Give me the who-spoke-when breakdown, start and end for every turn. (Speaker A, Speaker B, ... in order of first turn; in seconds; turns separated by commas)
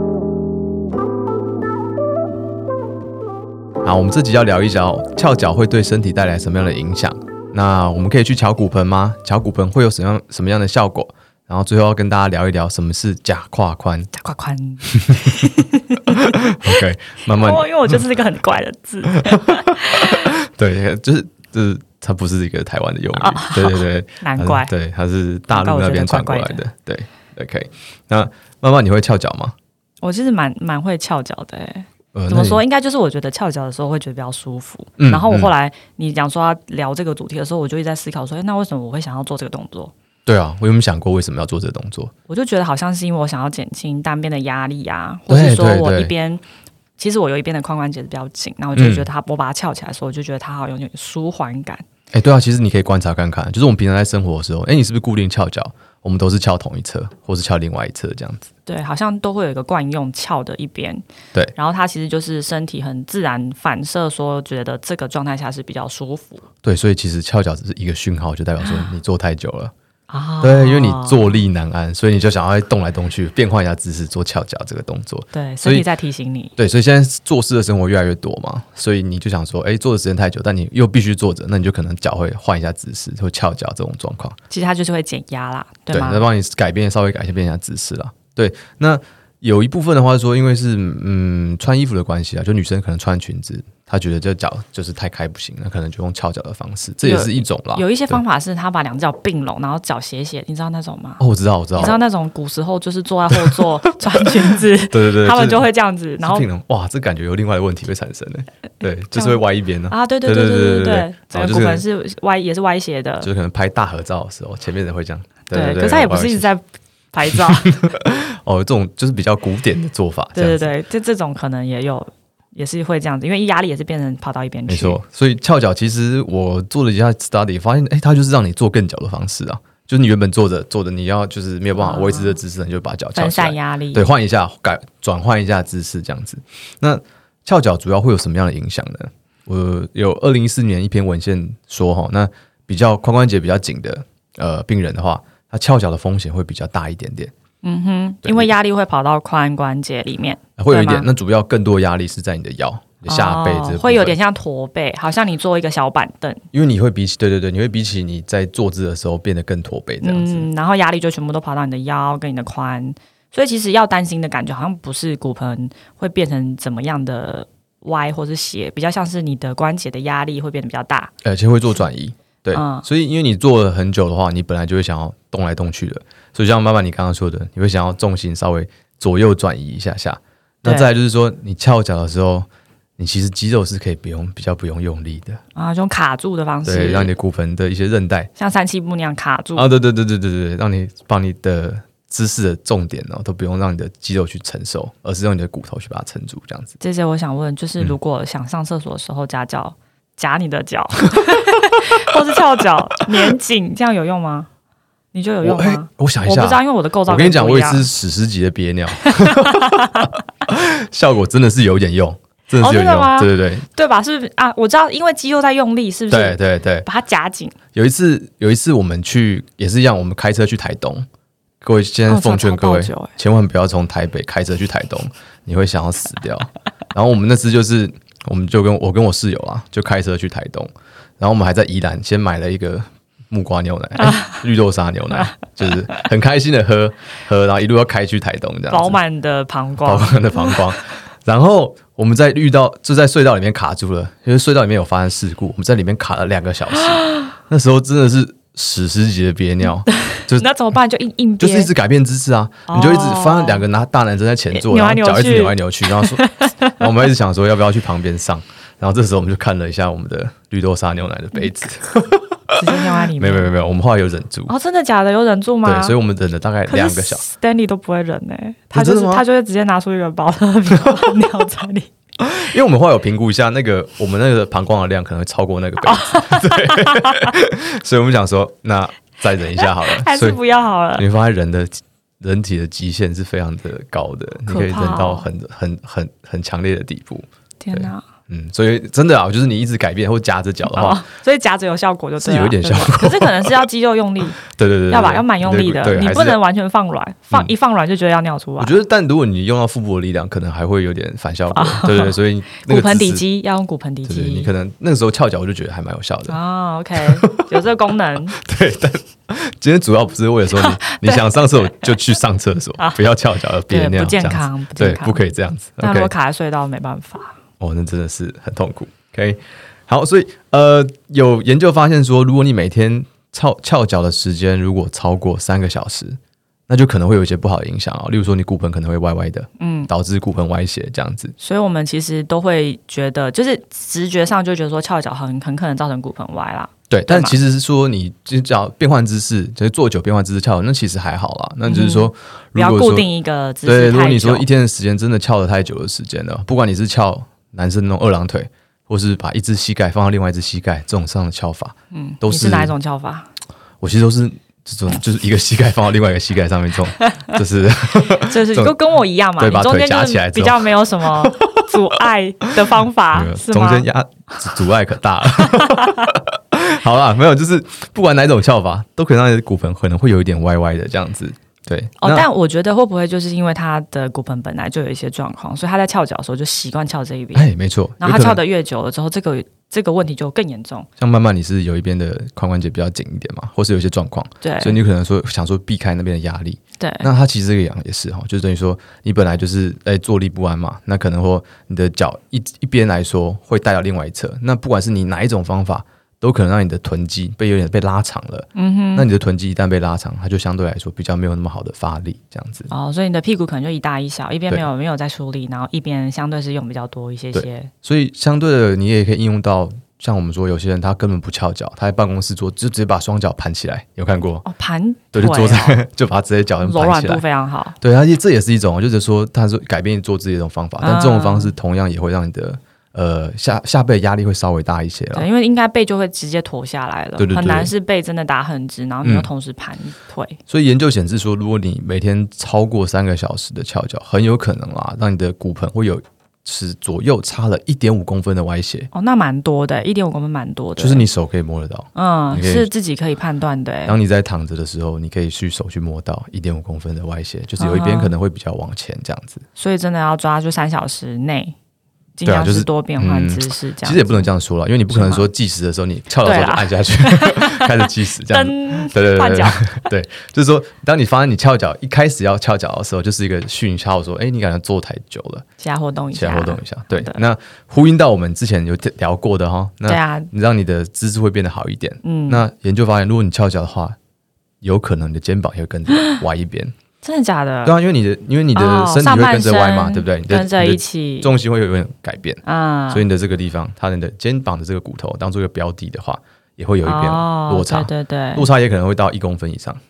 Speaker A: 3.8-14.1, Speaker B: 14.1-20.3, Speaker A: 14.8-15.4, Speaker A: 16.1-18.0, Speaker A: 19.1-29.5, Speaker B: 23.2-24.7, Speaker B: 25.5-26.6, Speaker B: 30.0-39.9, Speaker A: 32.1-32.6, Speaker A: 35.0-35.5, Speaker A: 40.2-42.1, Speaker B: 42.3-46.4, Speaker A: 45.3-46.1, Speaker B: 47.0-51.8, Speaker A: 48.7-49.1, Speaker A: 52.1-58.5, Speaker B: 58.6-66.4, Speaker A: 66.6-69.7, Speaker B: 68.6-68.9, Speaker B: 70.1-71.2, Speaker A: 70.4-75.8, Speaker B: 75.3-76.5, Speaker A: 76.6-84.4, Speaker B: 84.5-86.2, Speaker A: 85.9-98.2, Speaker B: 97.0-101.2, Speaker A: 101.2-102.0, Speaker B: 101.8-106.5, Speaker A: 103.3-105.7, Speaker A: 106.2-111.8, Speaker B: 109.1-113.3, Speaker A: 113.2-116.5, Speaker B: 115.5-117.8, Speaker A: 117.3-120.7, Speaker B: 120.3-125.0, Speaker A: 124.7-147.3, Speaker B: 131.8-132.4, Speaker B: 133.1-134.0, Speaker B: 147.6-151.1, Speaker A: 148.2-148.5, Speaker A: 150.6-154.1, Speaker B: 153.1-156.4, Speaker A: 156.5-160.5, Speaker B: 160.0-171.1, Speaker A: 171.2-185.4, Speaker B: 172.5-172.8, Speaker B: 180.6-180.9, Speaker B: 185.5-187.1, Speaker A: 186.6-188.3, Speaker B: 188.4-189.7, Speaker A: 189.5-196.7, Speaker B: 196.8-204.5, Speaker B: 205.1-207.9, Speaker A: 205.4-213.7, Speaker B: 209.0-210.1, Speaker B: 212.5-217.6, Speaker A: 216.1-216.9, Speaker A: 217.7-221.1, Speaker A: 221.6-239.0, Speaker B: 222.1-223.1, Speaker B: 234.0-234.2, Speaker B: 238.7-240.6, Speaker A: 239.8-250.5, Speaker B: 246.9-247.3, Speaker B: 249.9-251.7, Speaker A: 251.4-256.2, Speaker B: 252.7-253.7, Speaker B: 254.5-256.9, Speaker A: 256.8-264.5, Speaker B: 262.6-263.5, Speaker B: 264.5-265.9, Speaker A: 265.6-267.2, Speaker B: 266.7-271.9, Speaker A: 268.7-269.2, Speaker A: 272.2-280.4, Speaker B: 275.8-277.3, Speaker B: 279.6-281.0, Speaker A: 280.9-291.0, Speaker B: 284.5-285.2, Speaker B: 287.6-288.0, Speaker B: 290.6-298.7, Speaker A: 292.2-293.6, Speaker A: 294.5-296.4, Speaker A: 298.6-303.2, Speaker B: 301.5-304.5, Speaker A: 304.1-306.4, Speaker B: 306.3-308.4, Speaker A: 307.0-307.5, Speaker A: 308.3-316.1, Speaker B: 310.5-311.9, Speaker B: 313.7-315.2, Speaker B: 315.8-317.4, Speaker A: 317.6-331.3, Speaker B: 329.6-329.9, Speaker B: 331.4-337.4, Speaker A: 336.9-343.1, Speaker B: 341.6-344.5, Speaker A: 343.6-352.7, Speaker B: 351.9-353.3, Speaker A: 353.8-358.7, Speaker B: 358.1-363.9, Speaker A: 359.4-361.7, Speaker A: 363.1-372.2, Speaker B: 365.4-366.1, Speaker B: 372.0-377.4, Speaker A: 377.3-378.4, Speaker B: 378.0-380.9, Speaker A: 381.0-402.7, Speaker B: 384.4-384.8, Speaker B: 386.8-387.1, Speaker B: 398.5-399.1, Speaker B: 402.7-407.7, Speaker A: 407.3-414.4, Speaker B: 414.4-415.8, Speaker A: 415.1-417.2, Speaker B: 416.6-417.8, Speaker A: 417.8-425.3, Speaker B: 420.8-421.5, Speaker B: 425.1-430.4, Speaker A: 427.2-427.7, Speaker A: 429.0-429.3, Speaker A: 430.5-438.9, Speaker B: 438.9-441.0, Speaker A: 440.8-442.7, Speaker B: 441.9-443.9, Speaker A: 443.9-449.4, Speaker B: 447.6-448.1, Speaker B: 449.6-451.5, Speaker B: 452.2-454.3, Speaker A: 452.2-465.4, Speaker B: 454.9-455.3, Speaker B: 456.2-459.8, Speaker B: 465.6-467.2, Speaker A: 466.1-473.9, Speaker B: 469.9-470.3, Speaker B: 472.0-472.4, Speaker A: 474.6-476.7, Speaker B: 477.0-477.7, Speaker A: 477.6-489.8, Speaker B: 478.5-481.3, Speaker B: 482.4-483.0, Speaker B: 486.8-488.5